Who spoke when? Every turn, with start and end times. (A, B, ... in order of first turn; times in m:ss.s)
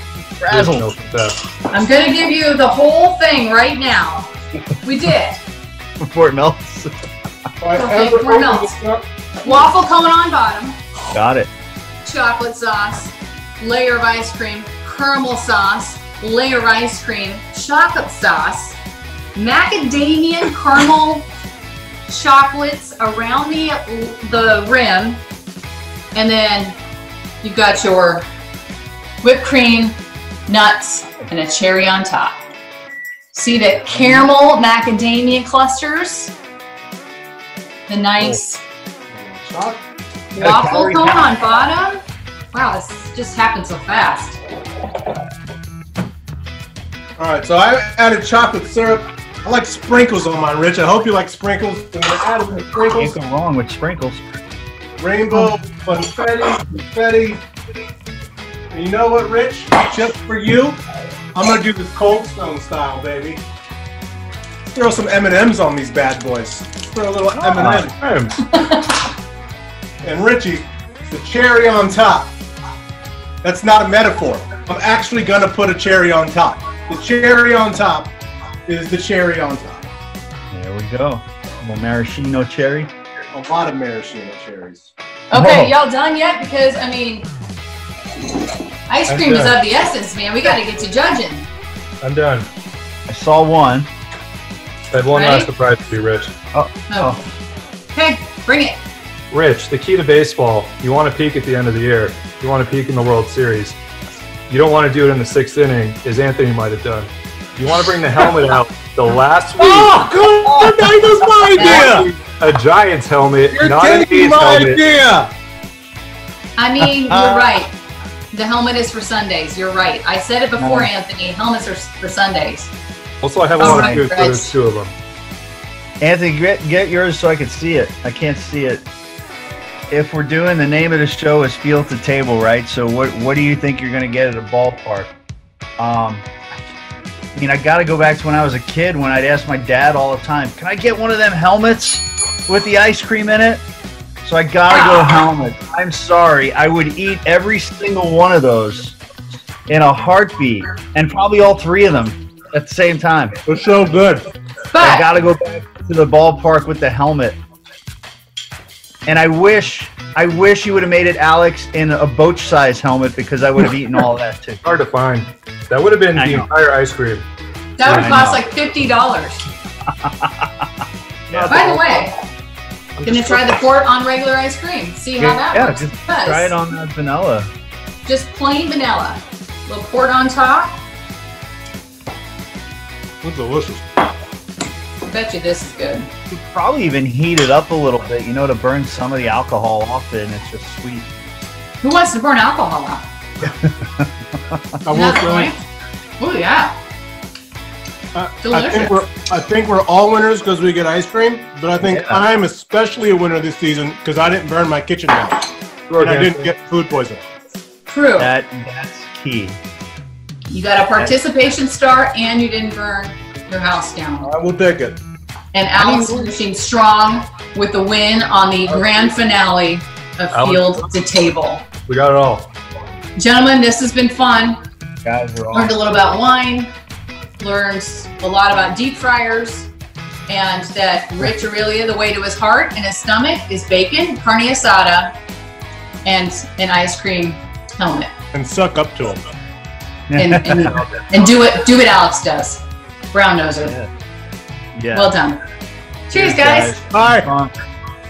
0:00.4-0:00.9 A
0:00.5-0:01.4 B
0:01.7-0:05.4 C
0:06.0-0:06.9 A
0:07.6-0:09.0 D
0:07.7-0:08.7 C
0:09.4-0:10.8 C
0:11.1-0:11.5 A
0:12.0-0:18.8 C
0:19.3-0:21.3 C
0:22.1-0:25.2 C
0:26.1-0:26.8 C
0:27.4-0:28.2 C
0:29.2-0:32.4 C
0:33.3-0:36.3 C
0:33.9-0:34.2 A
0:37.9-0:38.6 C
0:39.1-0:39.8 D
0:40.3-0:44.4 C
0:40.4-0:41.2 A
0:47.2-0:53.1 D
0:52.9-0:54.3 A
0:55.0-0:57.4 D
0:58.7-1:00.8 D
1:01.3-1:03.4 D
1:04.7-1:08.0 D
1:07.3-1:07.8 A
1:08.0-1:08.5 B
1:08.5-1:08.9 C
1:10.0-1:12.3 D
1:13.4-1:18.1 D
1:18.7-1:19.8 D
1:20.5-1:22.9 A
1:23.3-1:24.9 D
1:25.3-1:27.3 C
1:25.3-1:25.7 A
1:28.9-1:31.5 C
1:29.1-1:29.6 B
1:32.0-1:32.5 B
1:33.1-1:33.9 A
1:34.9-1:36.3 B
1:35.1-1:35.5 C
1:36.5-1:37.2 A
1:36.9-1:37.2 C
1:37.9-1:38.8 C
1:39.3-1:43.8 B
1:44.5-1:50.1 B
1:49.6-1:52.1 D
1:51.5-1:54.8 B
1:51.6-1:51.9 C
1:53.5-1:55.3 D
1:56.6-1:57.7 C
1:57.1-1:57.5 A
1:58.3-2:02.7 C
2:00.6-2:00.9 A
2:03.2-2:04.9 B
2:03.6-2:04.1 A
2:03.6-2:04.5 C
2:06.0-2:08.8 A
2:09.9-2:15.1 A
2:15.8-2:16.3 A
2:17.3-2:23.6 A
2:24.2-2:29.0 A
2:24.7-2:25.2 C
2:29.7-2:33.4 A
2:33.4-2:34.3 D
2:34.7-2:35.1 C
2:34.8-2:37.4 A
2:39.0-2:44.6 A
2:44.6-2:47.2 B
2:46.2-2:46.5 A
2:47.8-2:49.4 C
2:47.8-2:48.2 B
2:47.8-2:48.4 A
2:49.9-2:50.6 A
2:51.3-2:52.1 A
2:51.3-2:51.6 B
2:51.5-2:52.1 C
2:53.0-2:56.5 C
2:55.2-2:57.5 A
2:58.0-3:00.8 C
3:03.2-3:03.9 D
3:05.0-3:06.1 C
3:06.3-3:11.1 A
3:11.8-3:13.1 C
3:13.4-3:14.6 A
3:14.8-3:15.5 D
3:14.9-3:15.6 C
3:16.2-3:16.7 C
3:18.1-3:25.5 D
3:18.4-3:19.0 C
3:21.8-3:22.2 A
3:25.9-3:26.5 B
3:26.0-3:27.2 D
3:27.9-3:28.3 C
3:28.2-3:29.6 A
3:30.5-3:34.3 C
3:34.2-3:35.0 D
3:35.5-3:41.7 C
3:40.3-3:40.9 B
3:41.9-3:42.5 B
3:43.2-3:44.6 C
3:45.0-3:45.8 A
3:45.5-3:46.7 C
3:47.4-3:49.7 C
3:50.3-3:55.1 C
3:56.0-3:58.1 C
3:58.3-3:59.2 D
4:00.1-4:00.8 A
4:00.2-4:03.7 C
4:03.6-4:03.9 A
4:04.7-4:05.2 A
4:04.9-4:05.4 C
4:06.1-4:06.7 C
4:06.1-4:07.5 A
4:06.9-4:07.3 D